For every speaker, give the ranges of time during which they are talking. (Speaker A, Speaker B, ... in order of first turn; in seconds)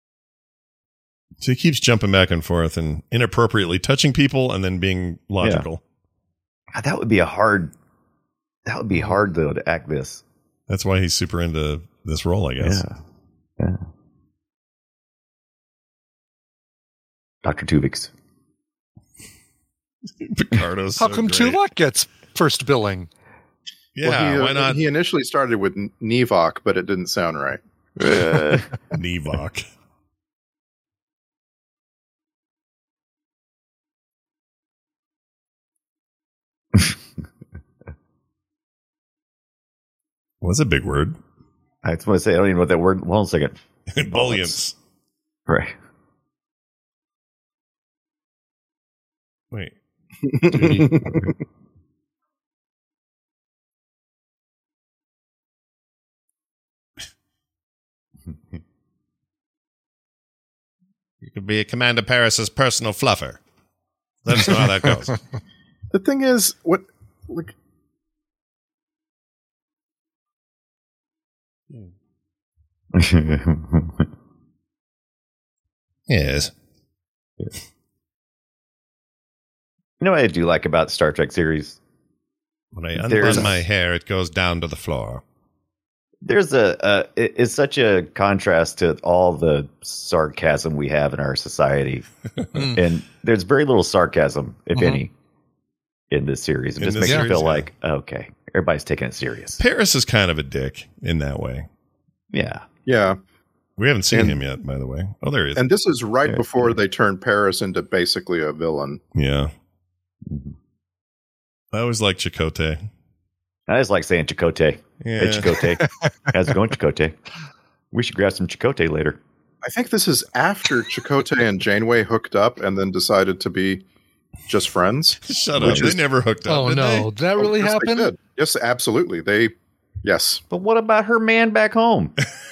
Speaker A: 1.4-5.8, 10.7-12.8, 20.1-21.6, 23.9-24.8, 28.9-29.6, 40.4-41.2, 43.9-44.7, 50.5-50.9, 61.2-63.4, 64.2-65.1, 76.1-76.5, 82.7-85.2, 96.8-97.7, 99.6-101.7, 103.8-105.6, 109.1-109.5, 111.7-112.8, 115.0-115.5, 125.2-127.1
Speaker B: 5.4-5.7, 6.7-7.7, 8.7-10.2, 12.6-13.0, 17.4-18.1, 28.0-28.7, 41.8-44.6, 45.5-45.7, 72.9-74.1, 80.0-81.8, 83.0-83.6, 86.2-92.0, 92.7-95.1, 96.1-99.6, 102.3-102.7, 106.2-106.8, 110.2-110.5, 113.7-117.2, 117.9-119.2, 125.6-125.9, 130.5-132.2
Speaker C: 21.0-23.1, 92.5-92.8, 94.7-95.0, 97.0-97.3, 115.6-115.9, 126.5-128.1
Speaker D: 24.0-27.6, 50.2-51.3, 65.9-67.5, 102.8-103.2, 104.1-104.4, 105.5-109.0, 119.6-123.8, 124.5-126.0, 127.4-129.5, 130.0-130.4